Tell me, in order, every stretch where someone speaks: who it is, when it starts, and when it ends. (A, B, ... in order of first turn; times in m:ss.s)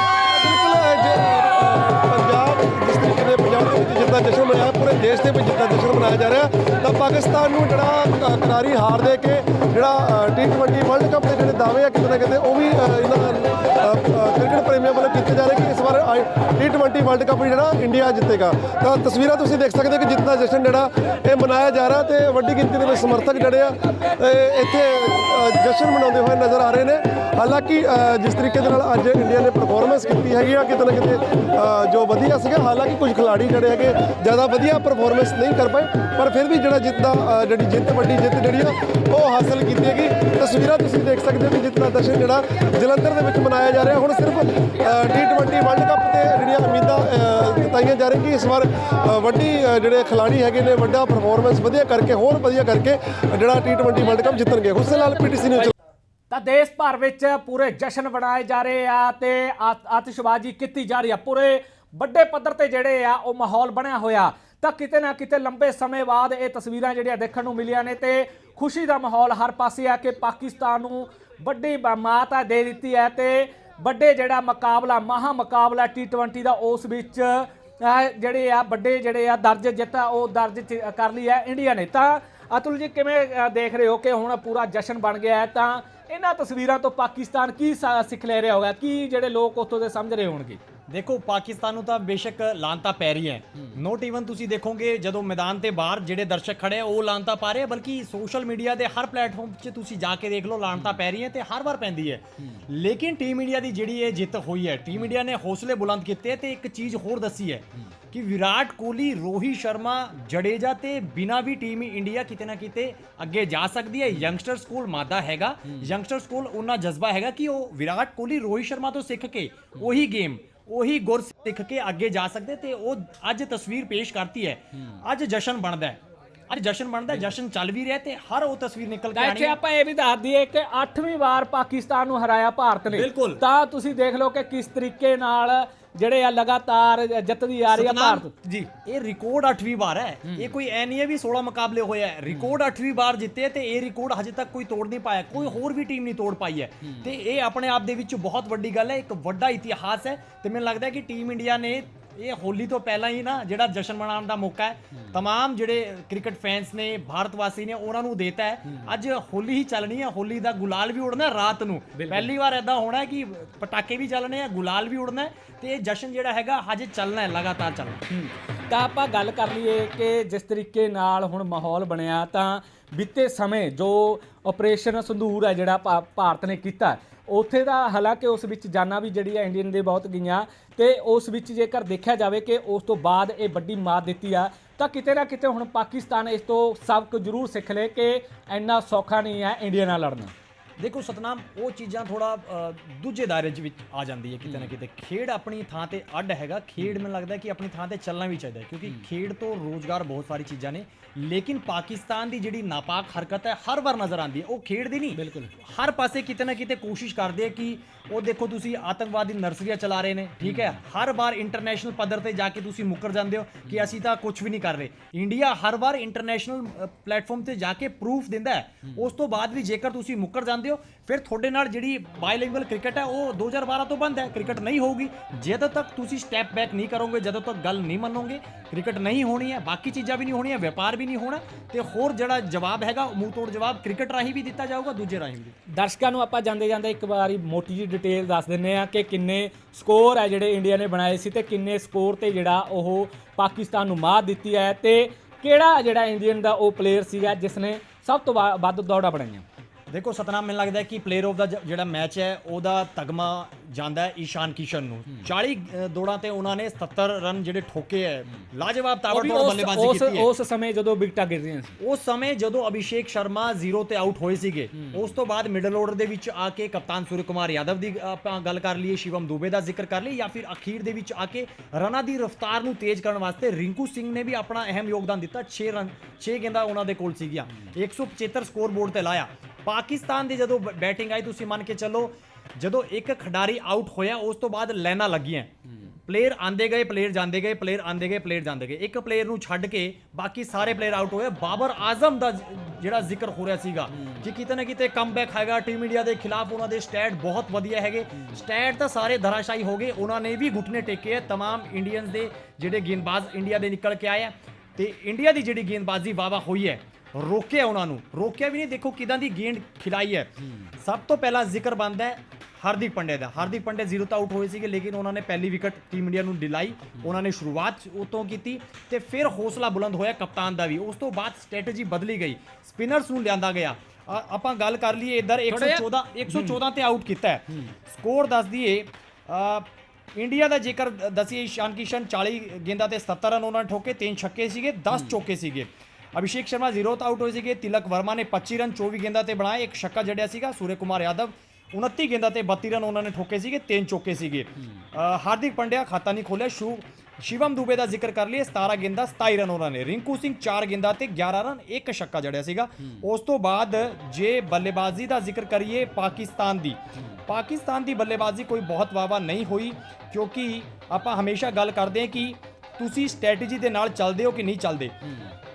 0:00.2-0:55.7 A
0:56.3-1:30.6 B
1:30.9-2:09.6 C
2:09.1-2:18.3 B
2:12.9-2:13.4 C
2:17.7-2:48.0 C
2:42.0-2:42.3 B
2:48.1-3:10.3 B
3:10.8-3:55.5 C
3:14.4-3:14.7 B
3:25.1-3:25.5 B
3:30.4-3:30.8 B
3:33.6-3:34.0 B
3:55.7-4:09.4 B
4:09.9-4:20.3 C
4:19.1-4:21.7 B
4:21.8-4:45.5 C
4:24.7-4:25.1 B
4:46.0-6:05.0 C
4:53.9-4:54.2 B
5:25.5-5:26.6 B